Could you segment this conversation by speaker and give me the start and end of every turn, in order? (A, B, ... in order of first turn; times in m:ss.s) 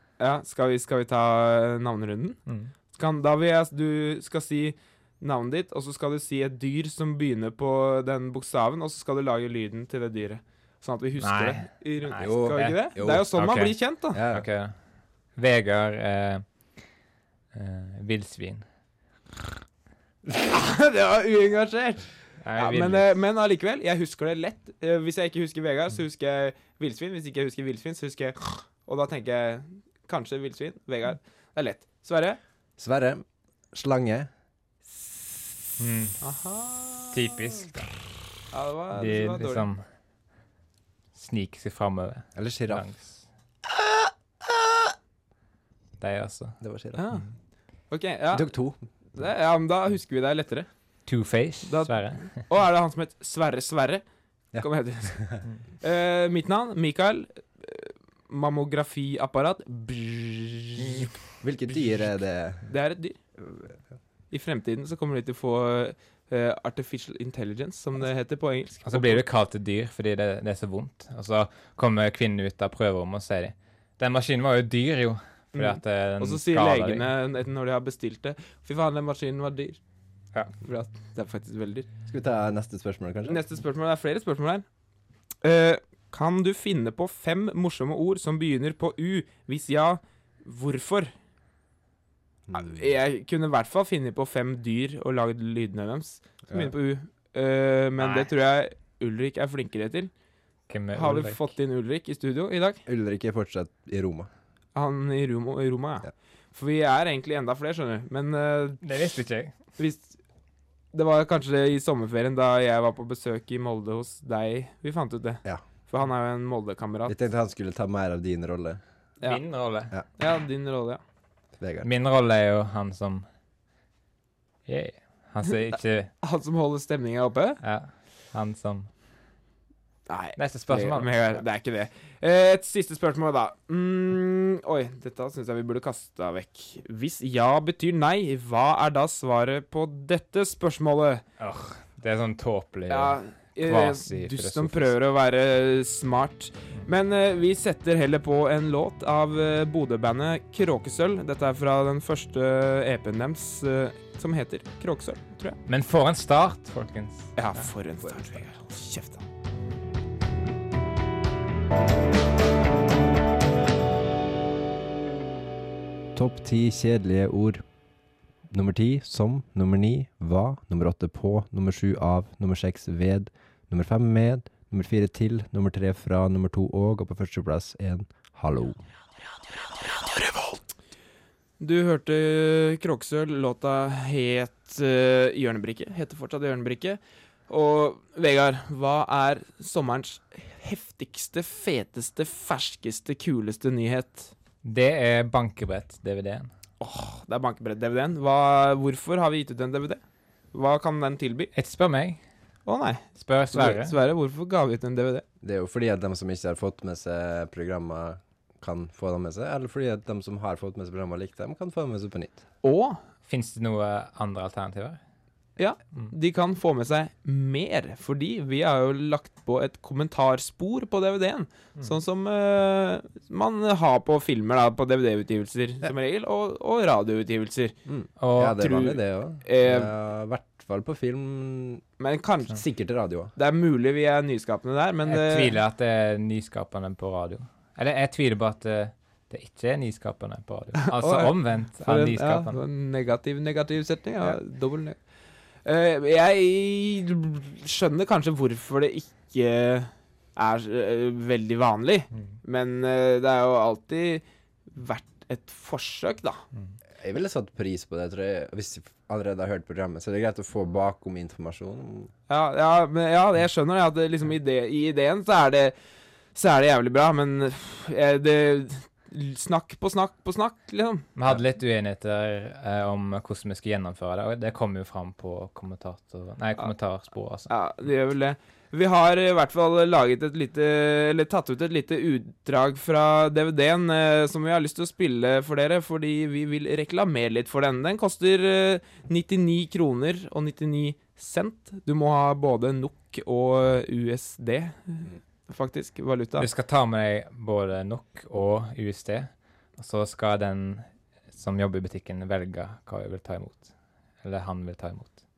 0:00.2-0:02.4 A
0:02.5-0:02.7 B
0:03.0-0:14.2 A
0:11.2-0:14.7 B
0:12.2-0:13.3 C
0:14.1-0:14.5 C
0:15.4-0:16.4 B
0:17.5-0:18.6 B
0:20.4-0:32.4 A
0:22.4-0:23.1 B
0:32.8-0:34.3 C
0:35.8-0:36.2 B
0:36.2-0:37.4 A
0:37.1-0:37.9 B
0:38.5-0:39.7 A
0:38.9-0:39.8 B
0:41.2-0:43.2 B
0:42.4-0:42.8 C
0:46.0-0:46.6 B
0:46.6-0:47.0 C
0:47.0-0:47.3 A
0:47.9-0:48.5 A
0:48.3-0:48.8 C
0:49.1-0:50.7 A
0:51.1-0:52.4 B
0:51.6-0:54.0 A
0:54.5-0:55.4 C
0:54.6-1:01.1 A
1:01.4-1:02.7 C
1:02.7-1:03.2 A
1:04.3-1:09.2 A
1:08.8-1:17.1 B
1:15.5-1:19.8 A
1:20.6-1:21.9 A
1:22.1-1:23.4 C
1:23.2-1:24.6 A
1:25.4-1:31.1 A
1:32.5-1:32.8 C
1:32.5-1:40.1 A
1:38.0-1:38.3 B
1:40.7-1:41.5 B
1:40.9-1:42.8 A
1:42.9-1:44.3 C
1:44.8-1:48.8 A
1:48.8-1:49.5 B
1:49.8-1:50.2 A
1:50.9-1:57.2 A
1:57.1-1:58.8 C
1:59.2-1:59.9 B
2:00.2-2:01.0 A
2:01.6-2:01.9 C
2:01.8-2:03.2 B
2:04.7-2:06.1 B
2:05.5-2:07.6 A
2:07.6-2:08.9 B
2:10.1-2:21.2 A
2:10.4-2:11.4 B
2:21.4-2:25.0 B
2:22.9-2:35.6 A
2:35.7-2:37.6 B
2:37.4-2:39.2 A
2:46.2-2:47.6 C
2:48.5-2:58.8 C
3:01.6-3:14.3 A
3:14.6-3:16.5 B
3:16.8-3:20.0 A
3:20.5-3:21.5 A
3:21.6-3:22.2 B
3:22.7-3:25.2 A
3:23.2-3:24.0 B
3:25.4-3:32.4 C
3:32.6-3:33.0 A
3:33.3-3:35.0 B
3:35.6-3:47.7 A
3:47.9-3:51.8 C
3:48.2-3:48.7 B
3:48.6-3:49.9 A
3:52.0-3:52.6 A
3:52.5-3:53.3 C
3:53.4-3:55.6 A
3:55.1-4:02.6 B
4:00.8-4:05.0 A
4:05.6-4:16.4 A
4:17.0-4:22.1 C
4:22.3-4:25.7 A
4:26.4-4:31.0 A
4:31.2-4:37.5 B
4:37.5-4:56.5 A
4:56.4-5:03.7 B
5:04.2-5:05.2 B